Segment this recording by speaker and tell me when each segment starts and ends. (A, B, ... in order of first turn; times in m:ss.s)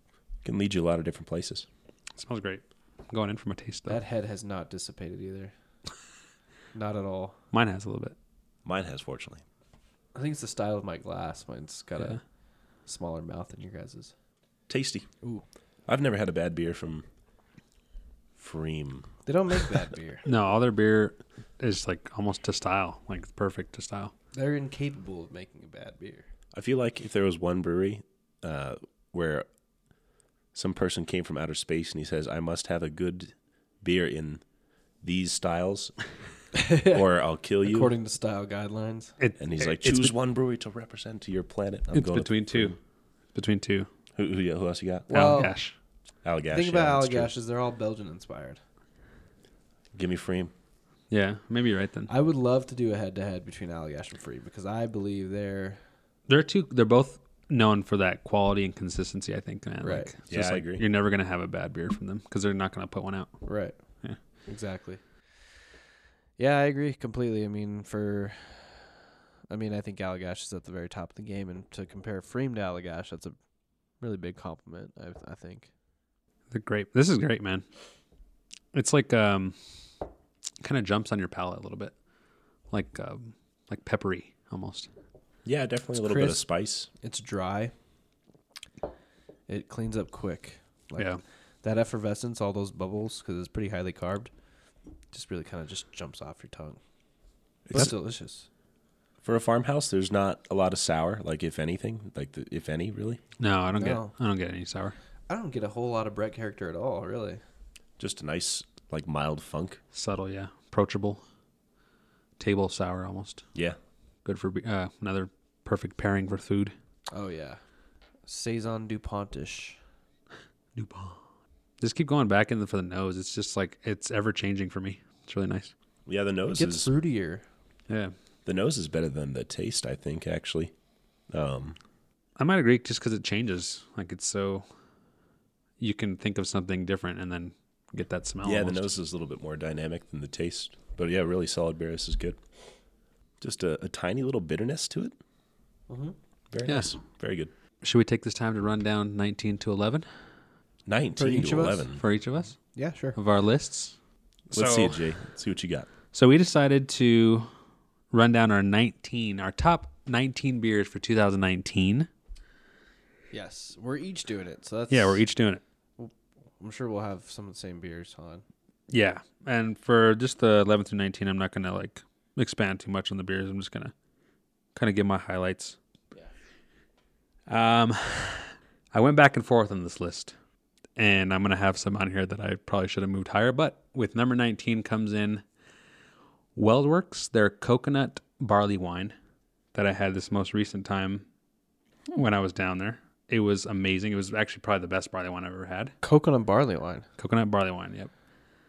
0:00.4-0:01.7 A
0:02.2-0:04.0 B
0:03.9-0:05.5 C
0:06.7-0:07.4 C
0:07.5-0:08.1 B
0:08.6-0:09.4 A
0:10.2-0:12.2 C
0:12.9-0:14.1 C
0:14.7-0:15.1 A
0:15.9-0:17.1 A
0:18.4-0:19.1 A
0:19.3-0:20.2 C
0:20.2-0:24.1 B
0:24.3-0:26.2 C
0:26.5-0:29.5 A
0:30.5-0:34.4 A
0:35.0-0:36.0 A
0:36.6-0:37.0 C
0:36.8-0:37.9 A
0:37.7-0:39.2 C
0:39.2-0:40.1 B
0:39.4-0:42.8 A
0:41.9-0:42.8 B
0:43.3-0:43.9 B
0:44.2-0:45.4 A
0:45.1-0:45.6 C
0:45.1-0:45.7 B
0:46.2-0:47.3 A
0:46.5-0:48.6 C
0:49.9-0:50.5 A
0:51.1-0:52.1 B
0:52.1-0:55.8 C
0:56.3-1:03.3 B
0:59.8-1:00.1 C
1:00.3-1:00.8 A
1:03.5-1:03.8 C
1:04.5-1:05.0 C
1:06.4-1:08.9 C
1:09.5-1:13.4 C
1:14.0-1:15.7 C
1:16.5-1:17.6 B
1:18.7-1:19.6 B
1:20.6-1:21.9 B
1:22.7-1:24.9 B
1:25.5-1:26.9 A
1:26.0-1:26.4 C
1:27.0-1:27.7 C
1:29.5-1:31.1 C
1:31.6-1:34.3 C
1:35.1-1:36.8 C
1:37.7-1:37.9 A
1:37.7-1:38.5 C
1:39.2-1:43.2 A
1:43.4-1:45.0 B
1:43.8-1:44.1 C
1:45.3-1:47.4 C
1:48.0-1:49.8 A
1:49.9-1:51.2 B
1:52.4-1:53.4 B
1:54.2-1:56.7 B
1:57.1-1:57.6 C
1:58.3-1:59.8 C
2:00.8-2:01.2 B
2:01.8-2:05.7 B
2:06.1-2:06.9 A
2:06.5-2:07.4 C
2:08.4-2:10.7 A
2:11.3-2:11.8 A
2:12.4-2:14.6 B
2:15.8-2:18.9 B
2:18.4-2:22.4 A
2:23.4-2:25.2 A
2:25.9-2:26.2 C
2:26.5-2:27.5 A
2:26.7-2:26.9 B
2:27.8-2:30.0 B
2:30.9-2:32.0 A
2:31.2-2:31.9 C
2:32.0-2:32.6 B
2:32.8-2:33.2 C
2:33.2-2:33.9 B
2:34.5-2:35.0 B
2:34.5-2:35.9 A
2:36.1-2:37.5 B
2:38.1-2:42.1 B
2:43.3-2:45.2 C
2:44.9-2:45.6 B
2:46.0-2:48.4 C
2:48.9-2:53.9 B
2:54.8-2:55.8 B
2:57.5-3:00.3 B
3:01.0-3:05.4 B
3:06.6-3:09.1 B
3:09.7-3:11.2 B
3:12.1-3:15.9 B
3:16.0-3:17.0 C
3:17.2-3:18.1 B